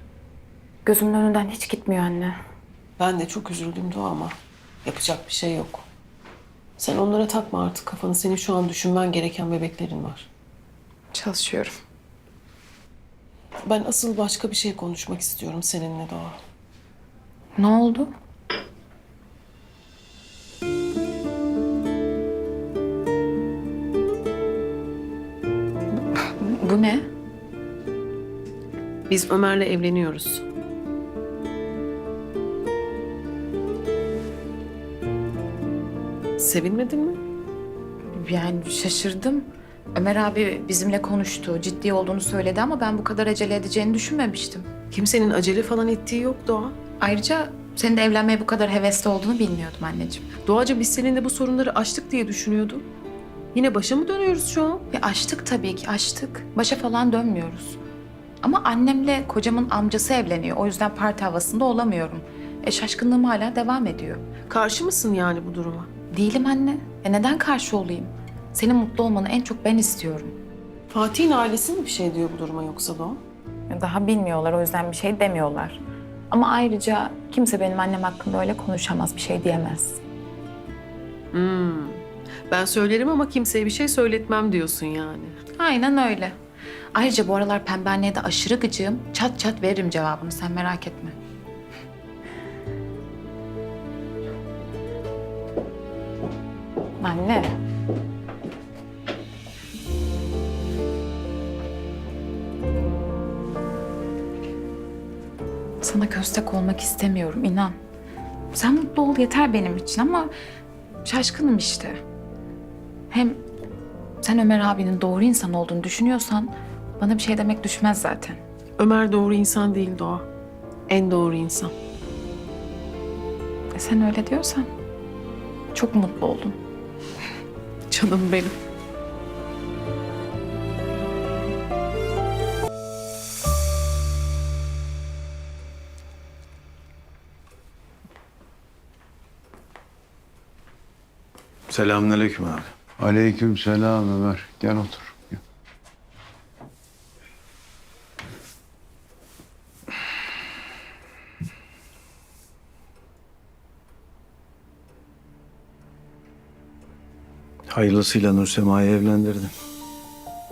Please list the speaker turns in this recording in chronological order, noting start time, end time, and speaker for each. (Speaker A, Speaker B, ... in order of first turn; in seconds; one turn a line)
Speaker A: 0.8-2.4
Speaker B: 3.0-5.8
Speaker B: 6.8-10.3
Speaker A: 11.1-11.8
Speaker B: 13.6-16.4
Speaker A: 17.6-18.1
Speaker A: 26.2-27.1
Speaker B: 29.1-30.4
Speaker B: 36.4-37.2
Speaker A: 38.1-44.7
Speaker B: 44.9-46.8
Speaker A: 47.0-50.3
Speaker B: 50.4-52.9
Speaker B: 53.5-54.9
Speaker A: 54.9-57.8
Speaker A: 58.4-64.3
Speaker B: 64.5-65.9
Speaker A: 66.1-70.3
Speaker B: 70.9-73.2
Speaker A: 73.7-80.0
Speaker B: 81.3-85.4
Speaker A: 85.6-86.3
Speaker A: 86.9-91.2
Speaker A: 97.0-97.5
Speaker A: 105.8-107.8
Speaker A: 108.5-110.3
Speaker A: 111.0-112.0
Speaker A: 113.1-113.4
Speaker A: 114.2-118.4
Speaker B: 118.8-120.3
Speaker B: 120.9-121.7
Speaker A: 123.8-124.7
Speaker A: 125.7-126.6
Speaker B: 127.9-128.5
Speaker C: 141.7-142.7
Speaker D: 143.0-145.4
Speaker C: 157.7-159.5